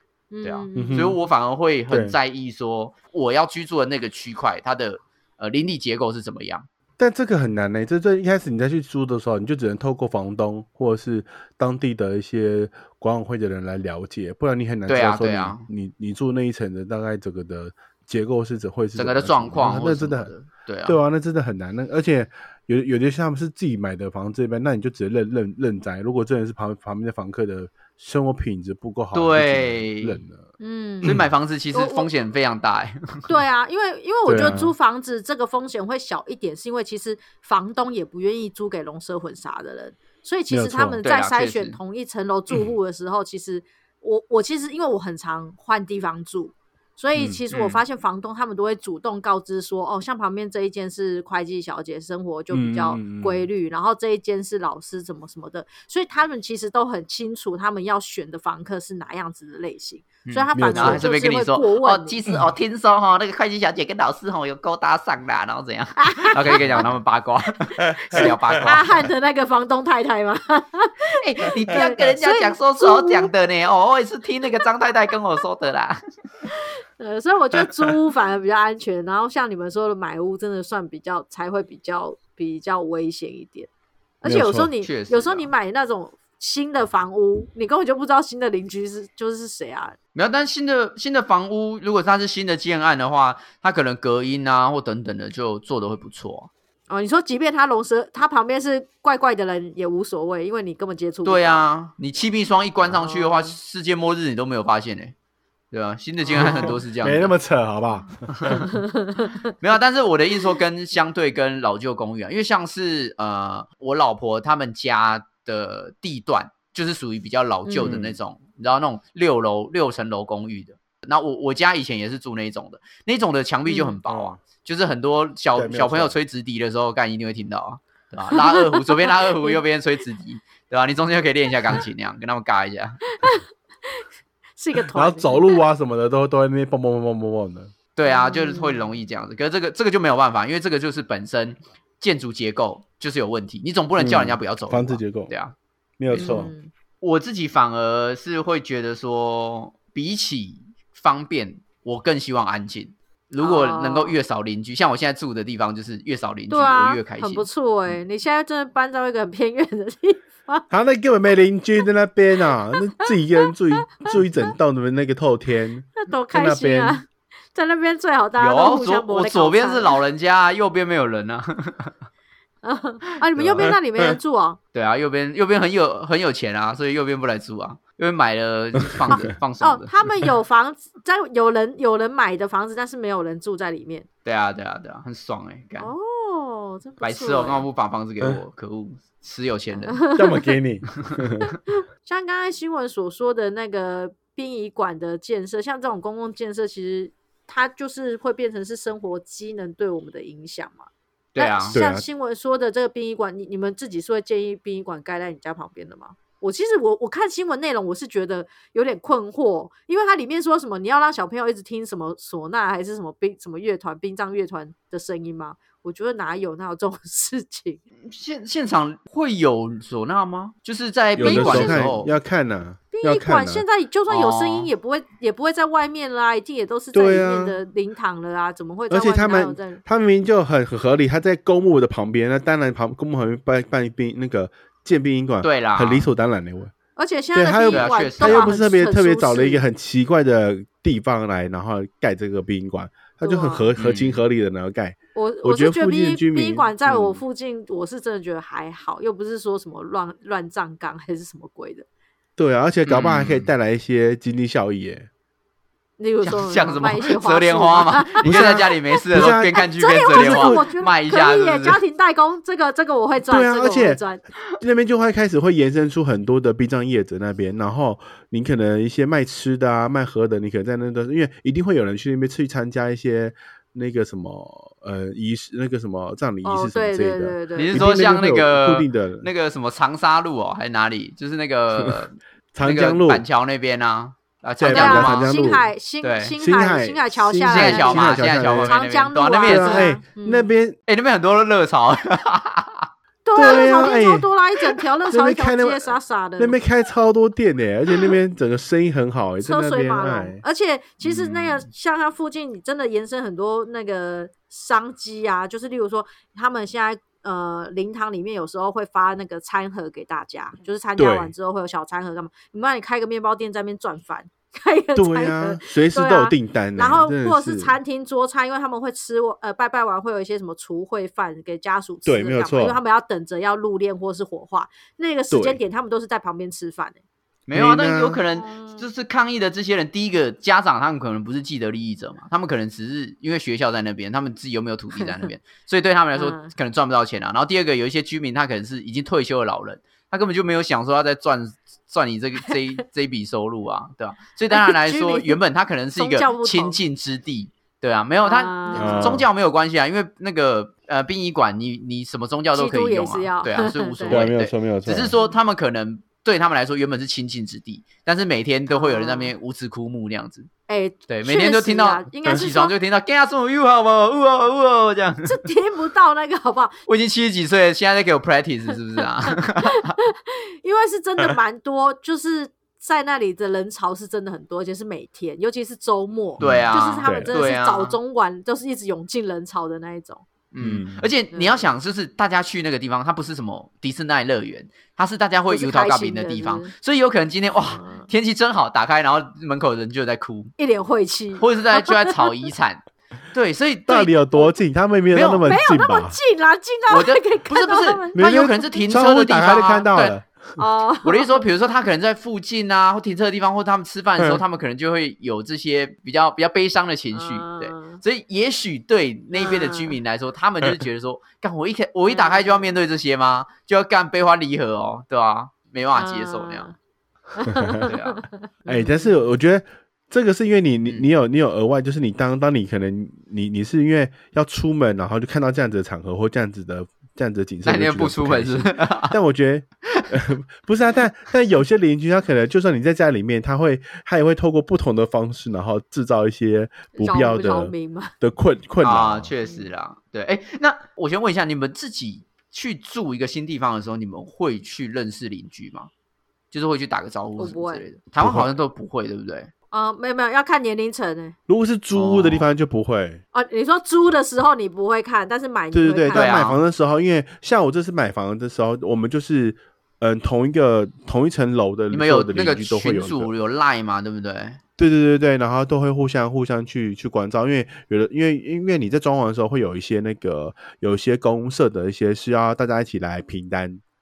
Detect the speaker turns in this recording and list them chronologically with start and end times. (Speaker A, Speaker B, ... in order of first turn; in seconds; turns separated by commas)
Speaker A: 0.3-1.2, Speaker B: 0.4-6.7, Speaker C: 0.8-1.2, Speaker C: 1.9-2.2, Speaker C: 7.0-20.3, Speaker B: 14.9-15.7, Speaker B: 19.0-21.0, Speaker C: 20.9-30.4, Speaker B: 29.1-30.2, Speaker A: 30.6-31.1, Speaker B: 31.0-33.3, Speaker C: 31.0-31.3, Speaker A: 31.7-32.1, Speaker A: 33.3-62.2, Speaker C: 34.3-34.7, Speaker C: 40.5-41.0, Speaker B: 41.0-41.8, Speaker C: 47.1-47.4, Speaker B: 47.5-47.8, Speaker C: 52.5-53.5, Speaker B: 60.3-68.9, Speaker C: 60.5-61.0, Speaker C: 62.3-62.5, Speaker A: 66.0-66.9, Speaker A: 68.1-73.3, Speaker B: 71.2-76.0, Speaker A: 76.5-83.7, Speaker A: 84.2-90.0, Speaker C: 84.2-84.7, Speaker B: 84.8-85.5, Speaker B: 90.2-96.5, Speaker A: 96.9-101.6, Speaker B: 101.2-105.1, Speaker A: 102.9-103.5, Speaker B: 105.7-107.3, Speaker A: 106.2-106.8, Speaker C: 106.3-108.7, Speaker B: 108.4-108.7, Speaker A: 108.7-109.5, Speaker B: 109.6-133.0, Speaker A: 117.7-118.0, Speaker C: 117.8-118.2, Speaker A: 123.7-124.0, Speaker C: 124.1-124.4, Speaker C: 125.5-126.2, Speaker A: 128.3-129.6, Speaker A: 133.1-133.4, Speaker A: 134.6-135.6, Speaker C: 134.9-137.7, Speaker B: 138.0-145.6, Speaker A: 138.1-138.9, Speaker C: 144.0-145.3, Speaker C: 146.0-146.5, Speaker B: 146.1-146.5, Speaker A: 146.2-146.7, Speaker B: 147.0-157.5, Speaker A: 153.4-154.2, Speaker A: 156.5-160.7, Speaker C: 160.7-167.0, Speaker A: 163.9-164.5, Speaker A: 166.0-170.0, Speaker B: 168.4-171.9, Speaker A: 172.6-174.6, Speaker C: 173.4-173.8, Speaker B: 174.7-179.9, Speaker A: 179.1-184.1, Speaker B: 184.2-185.9, Speaker A: 185.8-187.7, Speaker B: 187.0-190.0, Speaker A: 189.8-190.5, Speaker C: 190.2-191.5, Speaker A: 192.0-217.8, Speaker B: 201.3-201.8, Speaker C: 201.7-202.1, Speaker B: 218.0-222.1, Speaker C: 221.2-223.6, Speaker A: 221.2-221.8, Speaker A: 222.9-229.8, Speaker B: 224.1-224.7, Speaker C: 226.9-227.6, Speaker C: 228.9-236.7, Speaker B: 235.4-236.1, Speaker A: 237.0-239.6, Speaker C: 237.3-247.2, Speaker B: 237.7-238.6, Speaker A: 243.2-243.7, Speaker B: 243.8-244.2, Speaker A: 245.2-251.9, Speaker C: 252.4-255.1, Speaker B: 252.9-253.5, Speaker A: 256.0-264.2, Speaker B: 256.2-261.8, Speaker C: 258.2-260.7, Speaker C: 263.3-264.0, Speaker C: 264.6-279.3, Speaker A: 276.4-277.8, Speaker B: 277.6-285.5, Speaker C: 281.8-282.0, Speaker C: 282.5-283.2, Speaker C: 284.6-285.7, Speaker A: 284.6-290.5, Speaker B: 286.0-286.3, Speaker C: 286.4-288.8, Speaker B: 287.5-289.9, Speaker C: 289.4-290.8, Speaker B: 290.9-292.9, Speaker A: 293.2-296.6, Speaker C: 293.4-294.3, Speaker C: 295.1-300.4, Speaker A: 299.4-327.0, Speaker B: 301.0-301.7, Speaker C: 311.0-311.3, Speaker C: 314.9-317.8, Speaker C: 322.1-322.8, Speaker C: 325.3-325.6, Speaker B: 327.5-360.5, Speaker C: 327.6-328.2, Speaker A: 328.4-328.9, Speaker A: 335.0-335.3, Speaker A: 336.1-336.5, Speaker A: 344.5-345.4, Speaker A: 346.0-346.8, Speaker A: 348.2-349.2, Speaker C: 348.8-349.3, Speaker A: 352.5-354.3, Speaker C: 354.1-355.1, Speaker A: 358.7-359.3, Speaker A: 360.7-362.7, Speaker B: 361.1-365.5, Speaker A: 365.2-366.8, Speaker B: 366.9-369.9, Speaker A: 369.3-380.2, Speaker C: 376.4-377.3, Speaker B: 376.4-378.0, Speaker B: 380.5-390.5, Speaker C: 380.6-381.1, Speaker A: 381.3-381.7, Speaker A: 385.5-386.7, Speaker A: 387.6-388.1, Speaker A: 390.6-392.5, Speaker B: 391.4-394.3, Speaker C: 393.9-396.2, Speaker B: 395.1-395.5, Speaker A: 395.4-398.7, Speaker B: 396.9-400.1, Speaker C: 398.2-400.3, Speaker A: 400.6-401.4, Speaker B: 401.0-416.7, Speaker A: 407.1-408.0, Speaker A: 409.3-410.0, Speaker A: 412.1-412.7, Speaker A: 415.9-416.8, Speaker A: 417.3-419.1, Speaker B: 417.9-418.3, Speaker C: 418.7-439.3, Speaker B: 427.6-429.2, Speaker A: 437.0-438.1, Speaker B: 438.8-445.9, Speaker A: 439.4-439.7, Speaker B: 446.5-449.5, Speaker A: 447.4-447.8, Speaker C: 448.2-448.5, Speaker A: 449.7-451.4, Speaker C: 451.5-453.2, Speaker B: 451.9-452.5, Speaker A: 453.3-456.3, Speaker C: 455.7-463.3, Speaker B: 456.1-456.6, Speaker B: 461.9-464.6, Speaker C: 464.8-473.8